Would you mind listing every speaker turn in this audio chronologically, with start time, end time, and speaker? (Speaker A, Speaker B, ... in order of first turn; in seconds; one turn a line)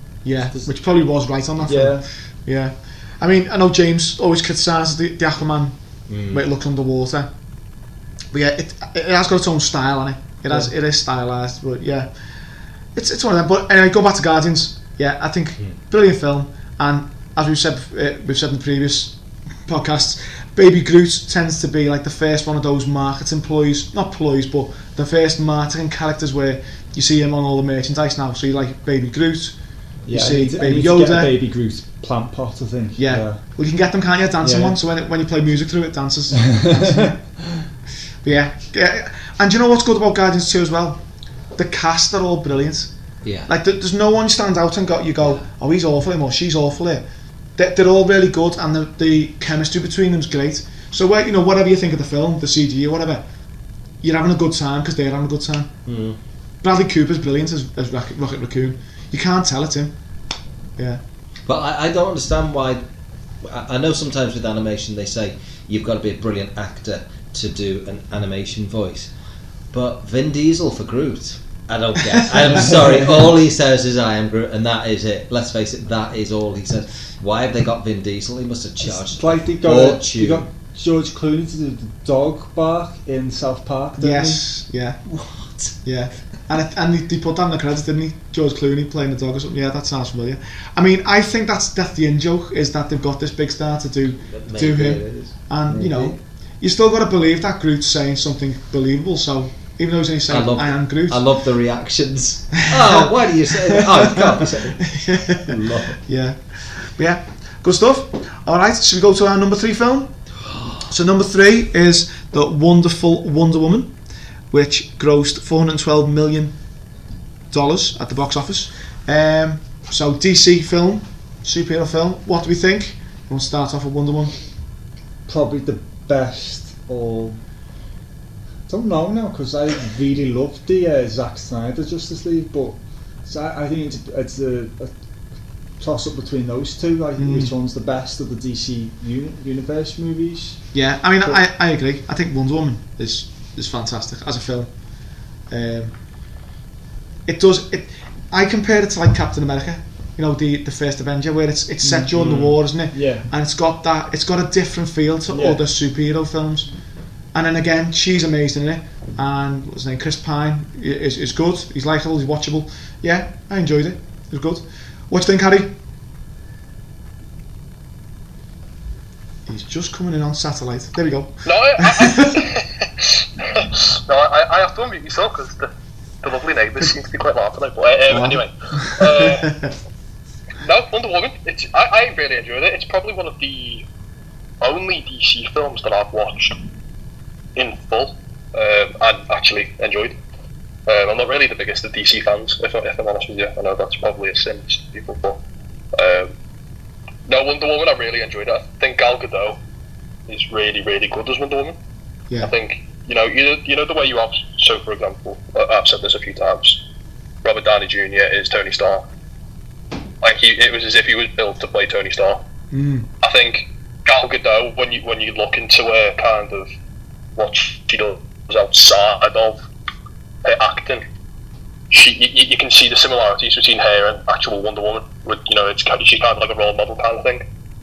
Speaker A: 0.2-5.7
Speaker B: 0.4-0.7
Speaker B: 1.6-2.0
Speaker C: 6.1-6.4
Speaker A: 6.3-7.3
Speaker A: 8.3-12.1
Speaker A: 12.9-19.1
Speaker A: 19.6-29.6
Speaker B: 30.1-33.4
Speaker A: 30.1-31.4
Speaker A: 33.0-37.1
Speaker B: 34.4-34.8
Speaker B: 36.4-37.1
Speaker A: 38.2-41.0
Speaker A: 41.5-42.9
Speaker C: 43.2-43.5
Speaker A: 43.5-47.0
Speaker A: 47.5-53.2
Speaker A: 54.0-55.7
Speaker C: 55.9-56.2
Speaker A: 56.6-59.9
Speaker C: 61.5-62.8
Speaker C: 63.4-69.1
Speaker C: 69.7-80.5
Speaker B: 78.8-84.4
Speaker A: 84.0-85.0
Speaker C: 85.1-85.7
Speaker A: 85.8-101.2
Speaker C: 94.2-96.2
Speaker C: 100.3-104.9
Speaker A: 102.7-110.1
Speaker C: 105.4-106.0
Speaker A: 110.9-113.9
Speaker A: 114.5-116.5
Speaker A: 117.5-124.3
Speaker B: 125.3-127.4
Speaker B: 128.7-134.9
Speaker B: 135.8-140.7
Speaker A: 137.2-137.5
Speaker A: 140.7-144.7
Speaker A: 145.5-145.9
Speaker A: 147.2-156.7
Speaker B: 151.8-152.4
Speaker C: 152.2-152.6
Speaker B: 152.9-153.3
Speaker B: 155.3-155.6
Speaker A: 157.3-165.7
Speaker A: 169.5-172.4
Speaker D: 171.4-175.7
Speaker D: 176.2-179.5
Speaker A: 178.1-179.7
Speaker D: 180.6-183.8
Speaker D: 184.6-186.6
Speaker D: 187.6-190.2
Speaker D: 190.8-195.4
Speaker D: 195.9-196.3
Speaker D: 197.2-199.6
Speaker D: 200.3-201.8
Speaker D: 202.4-206.8
Speaker D: 207.4-209.0
Speaker D: 210.2-212.4
Speaker A: 212.7-213.1
Speaker D: 213.2-216.7
Speaker D: 217.3-219.6
Speaker D: 220.4-221.0
Speaker D: 221.9-227.4